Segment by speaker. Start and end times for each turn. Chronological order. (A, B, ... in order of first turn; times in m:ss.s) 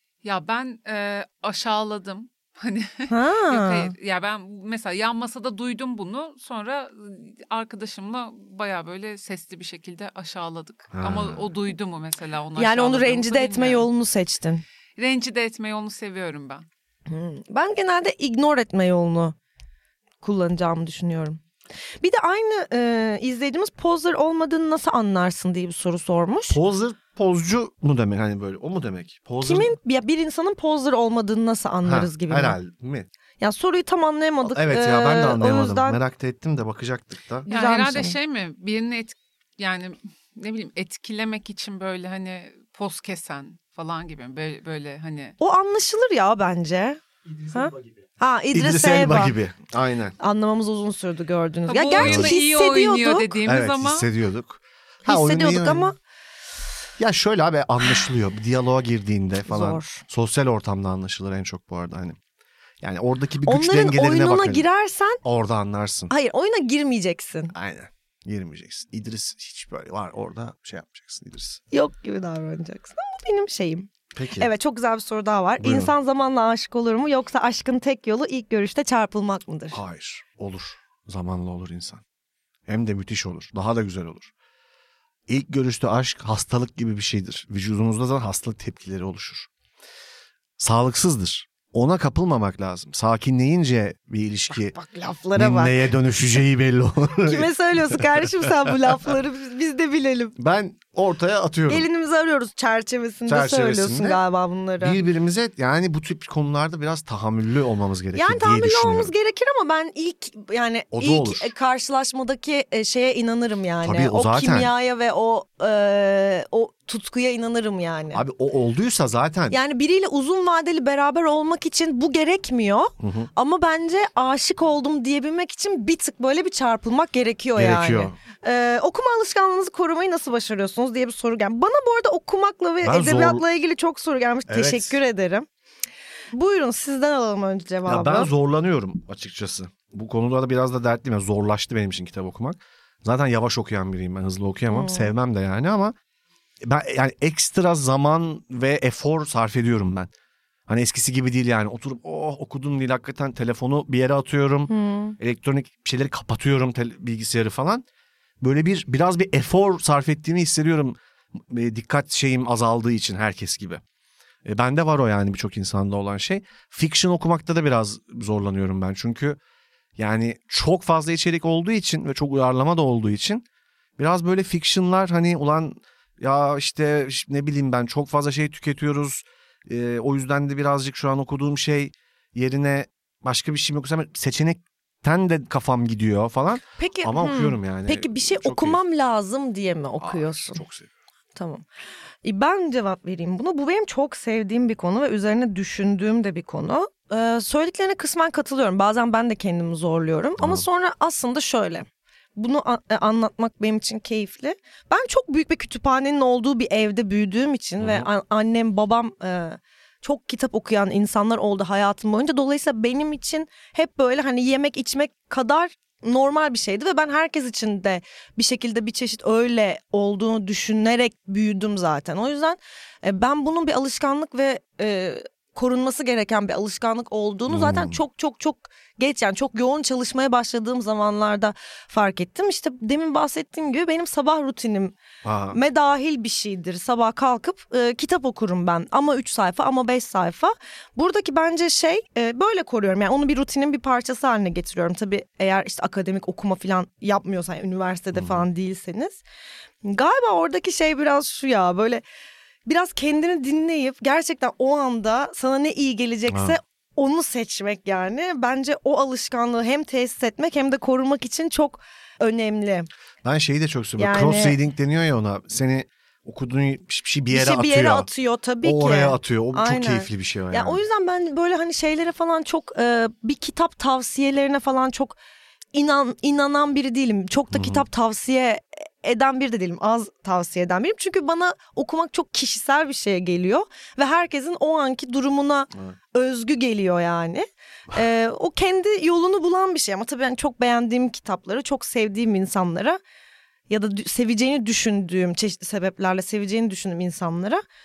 0:00.2-0:13.9 A
0:03.1-0:03.9 B
0:10.9-0:11.4 C
0:12.6-0:14.6 B
0:15.0-0:16.6 A
0:17.1-0:19.4 B
0:20.2-0:21.4 B
0:22.0-0:26.6 B
0:26.5-0:29.8 C
0:29.4-0:32.6 B
0:31.8-0:33.1 C
0:33.4-0:36.0 B
0:34.4-0:37.5 C
0:37.4-0:38.2 B
0:37.5-0:45.4 A
0:45.4-0:49.4 B
0:48.5-0:50.2 C
0:50.2-0:53.3 B
0:51.7-0:54.1 A
0:52.0-0:52.3 C
0:53.4-0:55.9 C
0:55.0-0:56.0 B
0:57.0-1:02.2 C
0:59.5-1:00.0 B
1:02.8-1:04.6 C
1:03.4-1:05.2 B
1:05.2-1:06.1 C
1:06.1-1:07.5 B
1:07.5-1:11.6 C
1:11.7-1:19.8 B
1:14.1-1:14.5 C
1:15.6-1:15.9 C
1:19.7-1:22.0 C
1:22.7-1:24.3 C
1:25.3-1:29.5 C
1:30.6-1:34.7 C
1:34.6-1:35.8 B
1:35.3-1:38.7 C
1:37.1-1:40.4 B
1:40.4-1:41.9 C
1:41.7-1:45.0 B
1:43.3-1:44.2 C
1:44.8-1:49.1 C
1:48.1-1:58.2 B
1:50.9-1:51.5 C
1:53.8-1:54.7 C
1:58.1-1:59.6 C
1:59.5-2:15.4 B
2:03.0-2:03.3 C
2:07.6-2:08.2 C
2:12.8-2:13.4 C
2:14.5-2:15.0 C
2:16.3-2:18.3 B
2:17.9-2:25.9 C
2:24.7-2:25.1 B
2:26.6-2:30.1 C
2:30.7-2:37.8 C
2:34.7-2:35.2 B
2:38.4-2:43.8 C
2:44.4-2:49.4 C
2:50.0-2:53.4 C
2:54.0-3:08.8 C
3:06.8-3:10.6 B
3:10.0-3:10.9 C
3:11.3-3:11.6 B
3:12.2-3:54.9 B
3:20.4-3:20.6 C
3:27.8-3:28.1 C
3:47.5-3:48.0 C
3:55.2-3:55.6 C
3:55.5-4:09.2 B
4:08.1-4:08.4 C
4:09.8-4:12.0 B
4:12.6-4:22.9 B
4:16.3-4:16.6 C
4:23.2-4:28.1 C
4:24.0-4:24.6 B
4:27.3-4:35.2 B
4:28.6-4:30.8 C
4:35.7-4:53.0 B
4:37.5-4:37.8 C
4:53.7-4:57.6 B